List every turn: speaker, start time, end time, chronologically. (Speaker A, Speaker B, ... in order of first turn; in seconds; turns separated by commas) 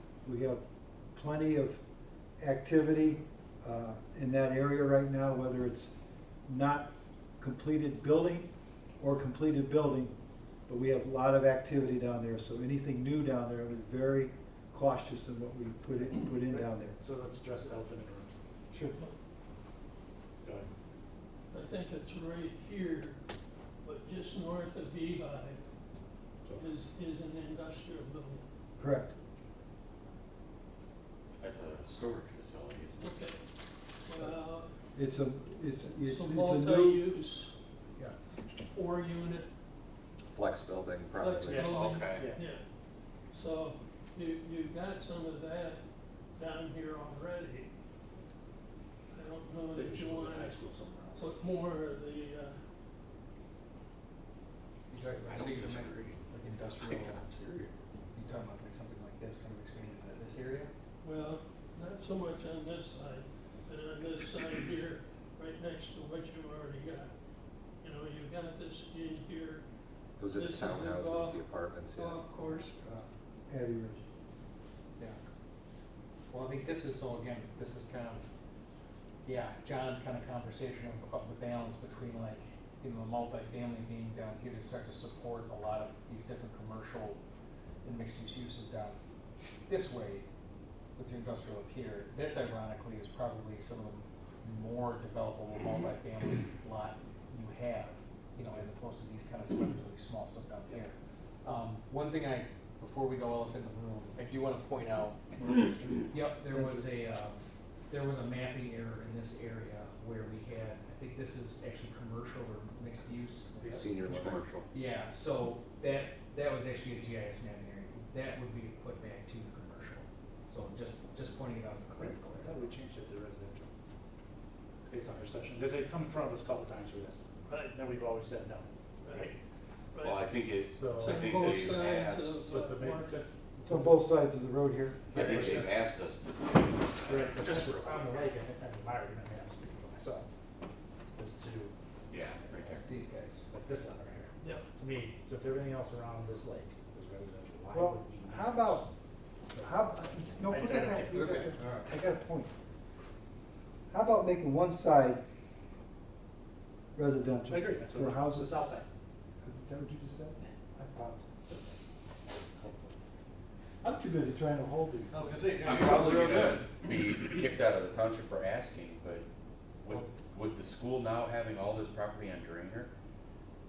Speaker A: 0.2-0.6, Speaker A: 1.1-1.8, Speaker A: 2.4-5.9, Speaker A: 6.5-6.9, Speaker A: 7.4-8.5, Speaker A: 9.0-10.1, Speaker A: 10.7-17.0, Speaker B: 16.3-18.3, Speaker A: 18.7-19.0, Speaker B: 20.4-20.7, Speaker C: 21.5-23.2, Speaker C: 23.8-25.6, Speaker B: 26.4-26.7, Speaker C: 26.5-28.4, Speaker A: 28.8-29.1, Speaker D: 31.4-33.1, Speaker C: 33.0-33.4, Speaker C: 34.0-34.7, Speaker A: 34.9-37.0, Speaker C: 36.0-37.5, Speaker C: 38.6-39.5, Speaker E: 40.3-41.7, Speaker C: 41.2-42.6, Speaker B: 41.4-42.5, Speaker D: 41.6-42.3, Speaker C: 43.3-45.8, Speaker C: 46.4-47.7, Speaker C: 49.1-50.6, Speaker B: 49.7-51.4, Speaker C: 51.2-52.5, Speaker F: 54.9-57.2, Speaker D: 55.2-56.2, Speaker D: 56.8-57.8, Speaker F: 58.1-60.7, Speaker C: 61.0-67.1, Speaker C: 67.8-69.6, Speaker E: 70.2-72.7, Speaker C: 70.3-72.7, Speaker A: 72.7-74.0, Speaker F: 76.3-78.3, Speaker F: 79.2-87.2, Speaker F: 87.8-89.0, Speaker F: 89.7-90.2, Speaker F: 91.0-105.4, Speaker A: 105.4-106.8, Speaker F: 106.0-113.5, Speaker D: 113.6-114.7, Speaker E: 113.7-114.4, Speaker F: 114.7-122.7, Speaker B: 122.0-123.7, Speaker B: 124.8-129.3, Speaker C: 129.0-129.3, Speaker C: 129.9-130.3, Speaker D: 130.0-132.4, Speaker B: 130.7-131.5, Speaker C: 131.0-133.2, Speaker B: 132.4-134.0, Speaker A: 133.6-135.3, Speaker D: 135.1-138.3, Speaker B: 135.1-135.8, Speaker F: 135.3-135.6, Speaker B: 137.0-140.2, Speaker B: 141.2-141.7, Speaker D: 142.1-142.8, Speaker F: 142.8-143.5, Speaker B: 143.5-148.8, Speaker A: 147.7-148.8, Speaker B: 149.5-149.8, Speaker A: 149.6-152.5, Speaker B: 150.4-151.4, Speaker F: 151.1-151.9, Speaker A: 153.9-155.2, Speaker A: 156.9-158.5, Speaker B: 157.4-158.8, Speaker A: 159.4-161.4, Speaker A: 163.8-165.3, Speaker F: 165.1-166.7, Speaker D: 165.6-169.2, Speaker D: 169.8-172.9